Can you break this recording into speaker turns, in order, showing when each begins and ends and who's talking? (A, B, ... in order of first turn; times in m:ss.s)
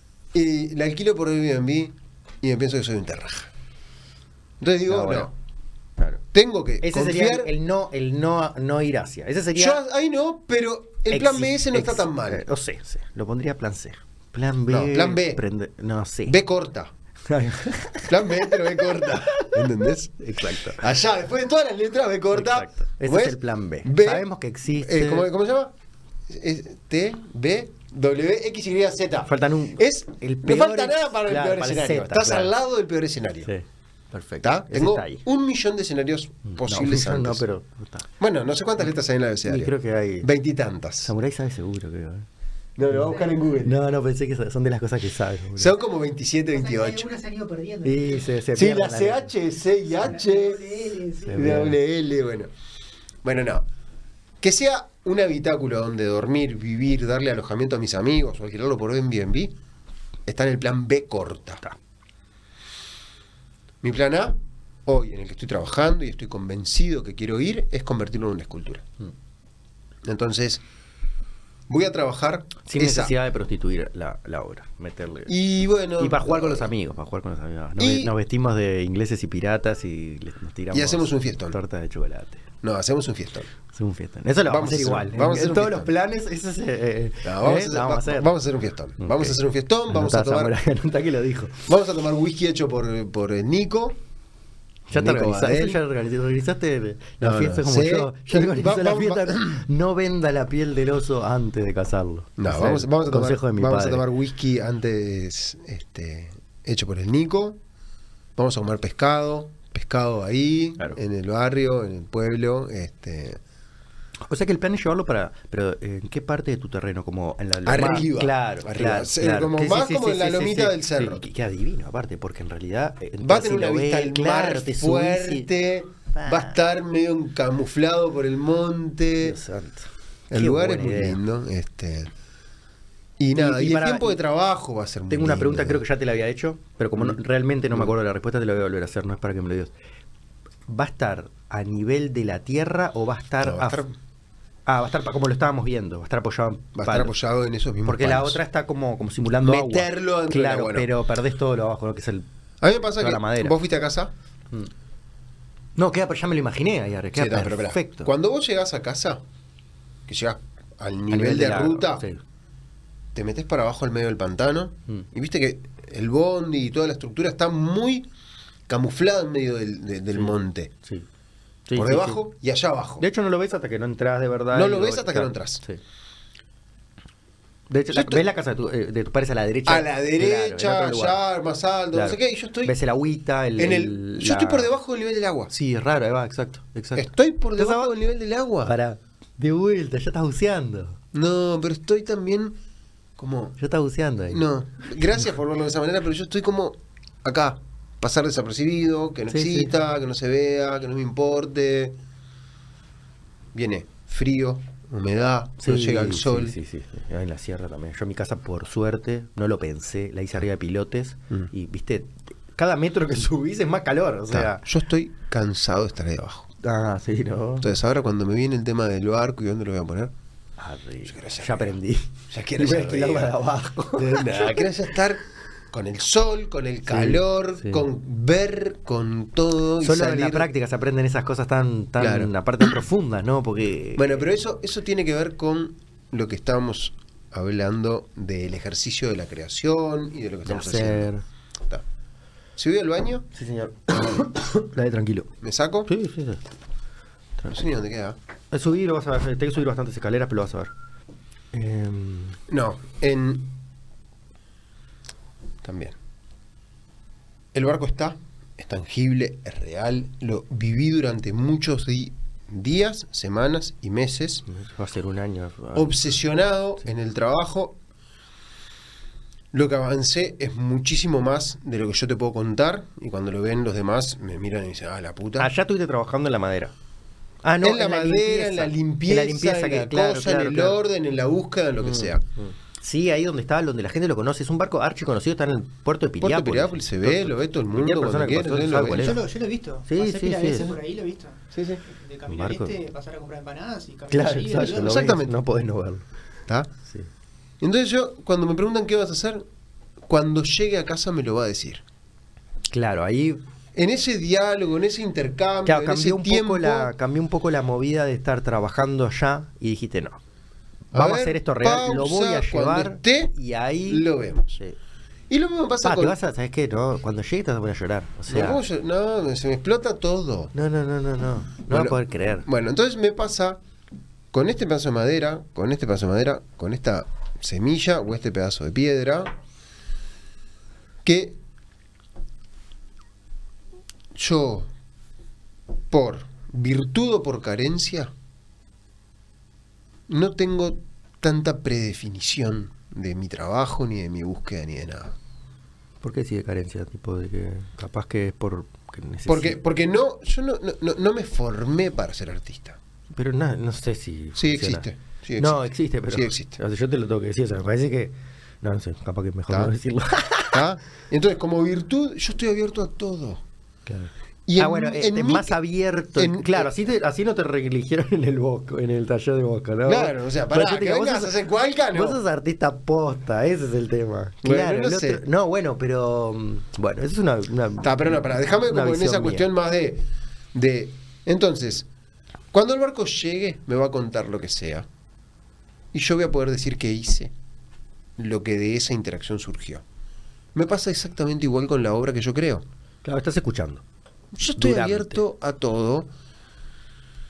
0:00.3-0:03.5 A
0:04.6-0:05.3 A
0:04.8-0:05.3 B
0:06.3-0:07.5 A
0:06.8-0:09.8 B
0:09.5-0:12.4 A
0:11.1-0:16.4 B
0:14.7-0:15.4 A
0:16.2-0:16.9 A
0:17.3-0:20.8 B
0:18.1-0:25.7 A
0:22.3-0:25.3 B
0:26.3-0:33.5 A
0:29.3-0:32.5 B
0:33.5-0:35.2 B
0:34.4-0:37.4 A
0:36.4-0:38.1 B
0:38.2-0:41.1 A
0:39.4-0:40.3 B
0:41.0-0:42.3 B
0:42.8-0:43.8 A
0:43.6-0:45.7 B
0:45.6-0:47.1 A
0:46.5-0:48.2 C
0:47.8-0:49.3 B
0:48.5-0:50.7 A
0:50.0-0:51.3 C
0:51.2-0:51.8 B
0:51.3-0:52.5 A
0:53.2-0:53.6 A
0:54.4-0:59.5 A
1:00.2-1:01.6 A
1:03.8-1:08.8 A
1:10.0-1:10.6 A
1:11.7-1:13.1 A
1:12.6-1:15.3 B
1:15.3-1:16.7 A
1:16.0-1:22.4 B
1:17.8-1:18.1 A
1:20.7-1:21.6 A
1:22.6-1:23.5 A
1:23.7-1:28.3 B
1:24.5-1:25.9 A
1:27.2-1:30.5 A
1:29.0-1:29.4 B
1:29.9-1:31.7 B
1:31.7-1:34.0 A
1:34.9-1:44.0 B
1:34.9-1:35.8 A
1:37.2-1:39.6 A
1:42.4-1:47.6 A
1:48.4-1:53.4 A
1:54.3-2:05.5 B
1:57.6-2:01.2 A
2:03.2-2:09.4 A
2:06.1-2:06.6 B
2:09.2-2:11.2 B
2:10.3-2:12.1 A
2:13.2-2:15.8 A
2:13.4-2:14.2 B
2:15.1-2:19.7 B
2:20.7-2:23.8 B
2:23.4-2:23.9 A
2:24.6-2:27.1 B
2:26.8-2:28.4 A
2:27.8-2:32.2 B
2:29.4-2:30.9 A
2:32.6-2:34.1 A
2:33.0-2:33.5 B
2:35.8-2:38.1 B
2:37.1-2:39.2 A
2:40.1-2:42.0 A
2:41.1-2:42.2 B
2:43.1-2:48.1 A
2:48.7-2:50.7 A
2:51.7-2:52.2 B
2:51.8-2:53.0 A
2:53.0-2:55.8 B
2:54.5-2:55.6 A
2:57.7-3:01.2 B
2:57.9-2:58.2 A
2:59.6-3:02.7 A
3:01.9-3:04.7 B
3:03.6-3:05.5 A
3:05.5-3:07.9 B
3:07.0-3:08.7 A
3:08.6-3:11.0 B
3:11.1-3:12.6 A
3:13.2-3:13.6 A
3:13.6-3:14.4 B
3:14.3-3:22.0 A
3:19.3-3:19.7 B
3:23.5-3:26.6 A
3:25.6-3:34.6 B
3:34.3-3:36.5 A
3:36.6-3:37.7 B
3:37.6-3:40.1 A
3:40.6-3:44.7 B
3:41.1-3:41.8 A
3:42.3-3:43.3 A
3:44.0-3:50.5 A
3:46.9-3:47.8 B
3:49.8-3:54.2 B
3:52.0-3:52.8 A
3:54.0-4:01.1 A
4:00.4-4:01.2 B
4:02.6-4:03.3 A
4:03.3-4:05.3 B
4:05.4-4:05.9 A
4:05.9-4:06.4 B
4:07.5-4:08.2 A
4:08.5-4:10.7 B
4:11.5-4:12.4 B
4:12.5-4:13.5 A
4:15.6-4:16.0 A
4:17.5-4:24.4 A
4:24.5-4:26.1 B
4:25.7-4:27.8 A
4:29.5-4:35.5 A
4:35.4-4:36.7 B
4:37.4-4:40.8 B
4:37.6-4:42.2 A
4:41.8-4:49.2 B
4:46.2-4:49.2 A
4:48.7-4:55.1 C
4:49.9-4:50.8 B
4:51.5-4:51.8 A
4:52.3-4:52.8 B
4:54.1-4:56.0 B
4:54.6-4:55.3 A
4:57.6-4:59.4 A
5:00.1-5:01.8 A
5:02.7-5:03.4 B
5:03.7-5:06.9 A
5:05.6-5:10.2 B
5:10.9-5:14.1 B
5:10.9-5:13.3 A
5:13.9-5:14.6 A
5:15.3-5:16.2 A
5:15.8-5:18.6 B
5:18.3-5:20.5 A
5:20.5-5:22.5 B
5:21.7-5:23.6 A
5:24.3-5:29.3 A
5:31.0-5:31.4 A
5:34.1-5:34.7 A
5:35.9-5:38.1 A
5:40.1-5:45.2 A
5:46.0-5:49.6 B
5:49.3-5:52.8 A
5:53.1-5:54.8 B
5:54.4-5:56.6 A
5:55.4-6:00.6 B
5:59.5-5:59.7 A
6:00.5-6:03.4 A
6:03.9-6:11.3 B
6:04.4-6:05.6 A
6:06.2-6:06.7 A
6:09.8-6:12.2 A
6:11.9-6:19.5 B
6:14.4-6:15.2 A
6:17.8-6:21.9 A
6:22.5-6:24.9 A
6:25.9-6:27.3 A
6:28.2-6:29.8 A
6:30.5-6:32.6 A
6:33.0-6:33.8 B
6:34.3-6:36.1 A
6:34.6-6:35.2 B